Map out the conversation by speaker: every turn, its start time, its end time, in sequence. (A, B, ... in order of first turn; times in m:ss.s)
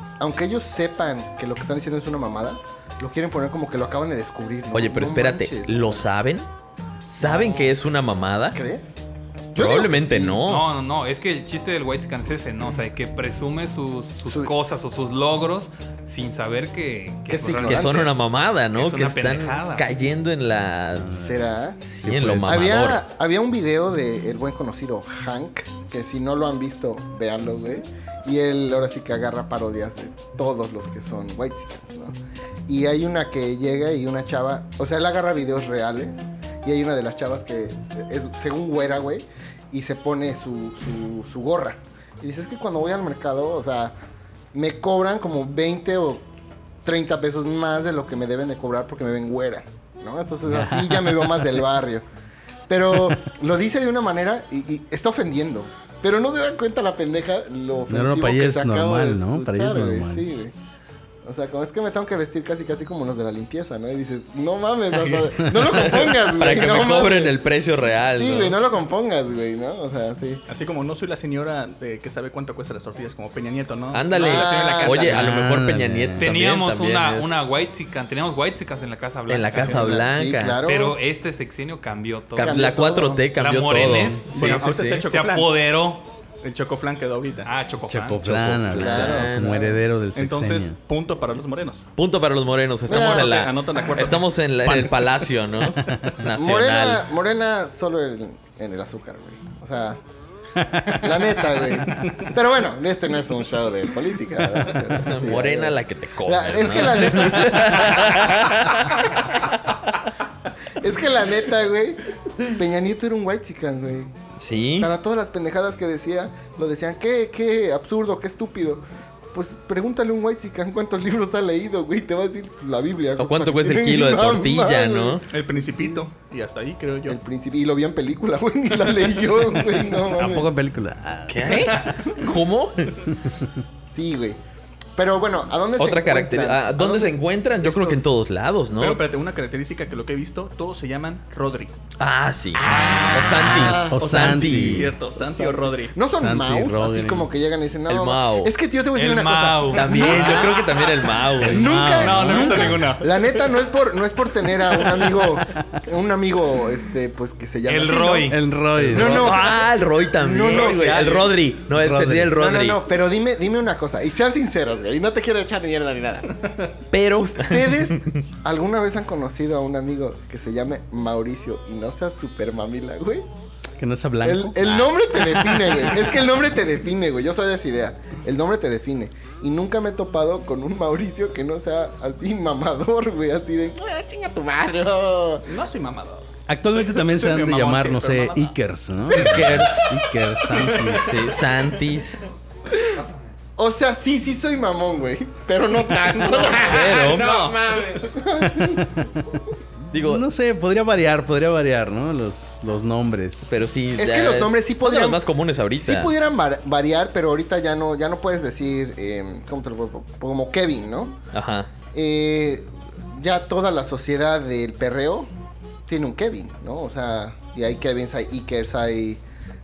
0:00.2-0:06.1 A
0:04.7-0:06.5 B
0:07.1-0:08.6 B
0:07.2-0:07.8 C
0:08.6-0:08.9 A
0:09.5-0:10.4 A
0:09.6-0:10.7 B
0:10.5-0:18.1 C
0:14.3-0:14.5 A
0:17.3-0:18.1 A
0:17.7-0:21.2 B
0:18.7-0:19.9 C
0:21.0-0:21.4 D
0:21.2-0:21.8 A
0:21.8-0:23.0 B
0:22.0-0:22.8 D
0:22.4-0:32.2 A
0:32.7-0:44.0 A
0:44.5-0:46.2 A
0:46.8-0:52.1 A
0:50.4-0:51.6 D
0:52.7-1:00.6 A
0:57.9-1:00.3 D
1:01.2-1:07.4 A
1:05.0-1:05.3 E
1:05.6-1:08.6 B
1:08.1-1:10.4 A
1:10.5-1:15.3 E
1:13.9-1:17.4 B
1:14.2-1:15.3 A
1:15.0-1:16.3 D
1:16.2-1:20.1 C
1:19.3-1:20.6 B
1:19.6-1:21.0 A
1:20.6-1:22.7 C
1:22.4-1:24.9 B
1:22.4-1:23.5 A
1:23.4-1:26.1 C
1:24.3-1:25.5 E
1:26.4-1:27.5 E
1:27.5-1:28.2 C
1:27.9-1:30.8 D
1:28.1-1:29.8 B
1:28.7-1:29.5 A
1:30.1-1:31.9 E
1:32.0-1:37.0 B
1:32.9-1:33.4 A
1:32.9-1:34.9 E
1:34.7-1:34.9 D
1:35.9-1:36.2 D
1:36.3-1:40.0 A
1:40.9-1:49.2 A
1:44.9-1:49.5 B
1:50.8-1:54.2 A
1:54.4-1:54.9 B
1:54.8-2:05.2 A
2:03.2-2:05.3 B
2:05.3-2:07.2 E
2:07.1-2:10.5 A
2:09.9-2:11.6 D
2:11.3-2:13.1 B
2:11.8-2:12.0 E
2:13.9-2:14.4 A
2:15.0-2:18.1 A
2:15.8-2:19.0 B
2:18.7-2:21.8 E
2:22.0-2:25.0 B
2:22.6-2:23.8 C
2:23.4-2:26.0 E
2:23.4-2:24.9 D
2:23.6-2:24.0 A
2:25.2-2:30.8 A
2:26.1-2:27.3 D
2:27.9-2:28.5 B
2:28.9-2:30.4 C
2:29.7-2:31.7 B
2:30.1-2:30.6 E
2:31.4-2:38.4 A
2:31.4-2:32.8 D
2:31.9-2:33.1 E
2:37.7-2:38.4 C
2:38.3-2:39.3 D
2:38.8-2:42.8 B
2:38.9-2:40.9 A
2:40.5-2:41.4 E
2:41.7-2:42.4 D
2:42.3-2:46.5 A
2:46.9-2:48.1 B
2:47.2-2:53.3 A
2:53.8-2:55.7 D
2:54.2-3:05.5 A
3:05.4-3:08.6 E
3:06.5-3:11.4 D
3:09.1-3:10.0 B
3:10.5-3:11.2 E
3:10.9-3:12.3 B
3:12.8-3:13.3 C
3:13.6-3:19.4 A
3:16.0-3:17.6 E
3:16.3-3:17.4 B
3:19.9-3:20.3 B
3:20.0-3:23.5 D
3:23.5-3:26.1 B
3:24.0-3:31.2 A
3:31.3-3:31.7 B
3:31.9-3:35.3 A
3:35.9-3:39.2 A